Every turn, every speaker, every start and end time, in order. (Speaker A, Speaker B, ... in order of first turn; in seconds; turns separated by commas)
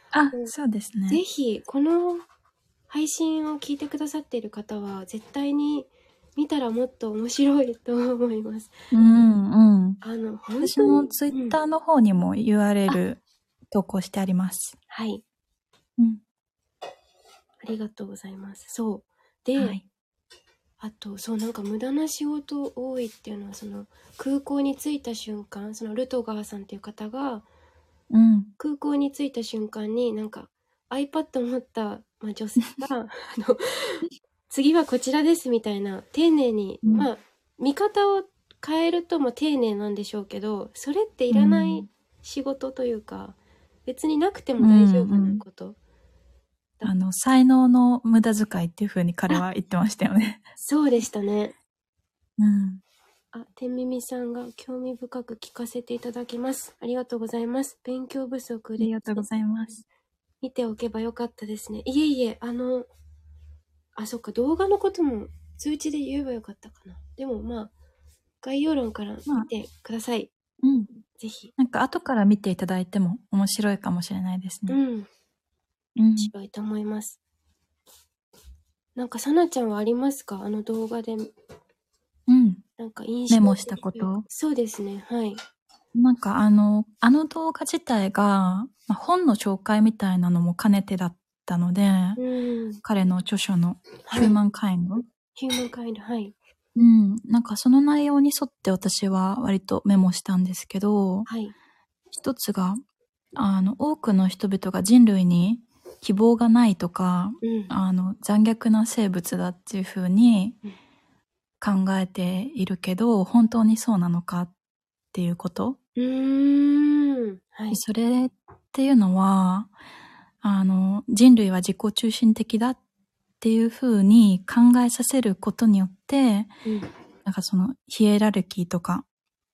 Speaker A: 0.1-1.2, Speaker B: 1.1-2.2, Speaker B: 2.9-8.7, Speaker A: 8.9-10.0, Speaker B: 10.0-11.6, Speaker A: 10.6-14.8, Speaker B: 14.9-15.2, Speaker B: 17.6-19.8, Speaker A: 19.6-19.8, Speaker B: 20.8-27.4, Speaker A: 28.1-28.5, Speaker B: 28.6-45.8, Speaker A: 41.3-41.9, Speaker A: 44.6-45.4, Speaker A: 46.8-50.4, Speaker B: 50.6-51.5, Speaker A: 52.4-52.8, Speaker B: 53.3-59.3, Speaker A: 58.8-59.8, Speaker B: 60.4-62.9, Speaker B: 64.0-67.7, Speaker B: 68.4-70.3, Speaker A: 70.6-70.9, Speaker B: 71.2-71.5, Speaker A: 71.6-74.8, Speaker B: 74.7-75.1, Speaker A: 76.0-76.3, Speaker B: 76.2-77.2, Speaker B: 79.0-81.3, Speaker A: 82.3-82.6, Speaker B: 82.8-85.4, Speaker A: 83.3-84.2, Speaker A: 85.9-92.2, Speaker B: 92.2-92.8, Speaker A: 92.8-95.0, Speaker B: 94.0-94.4, Speaker B: 95.3-96.3, Speaker A: 96.7-101.3, Speaker B: 101.3-101.5, Speaker A: 102.1-102.8, Speaker A: 103.3-110.6, Speaker B: 107.4-107.7, Speaker A: 111.6-114.5, Speaker A: 115.1-115.8, Speaker B: 116.0-117.8, Speaker A: 117.7-119.7, Speaker A: 120.4-122.8, Speaker A: 123.4-126.5, Speaker A: 127.2-129.1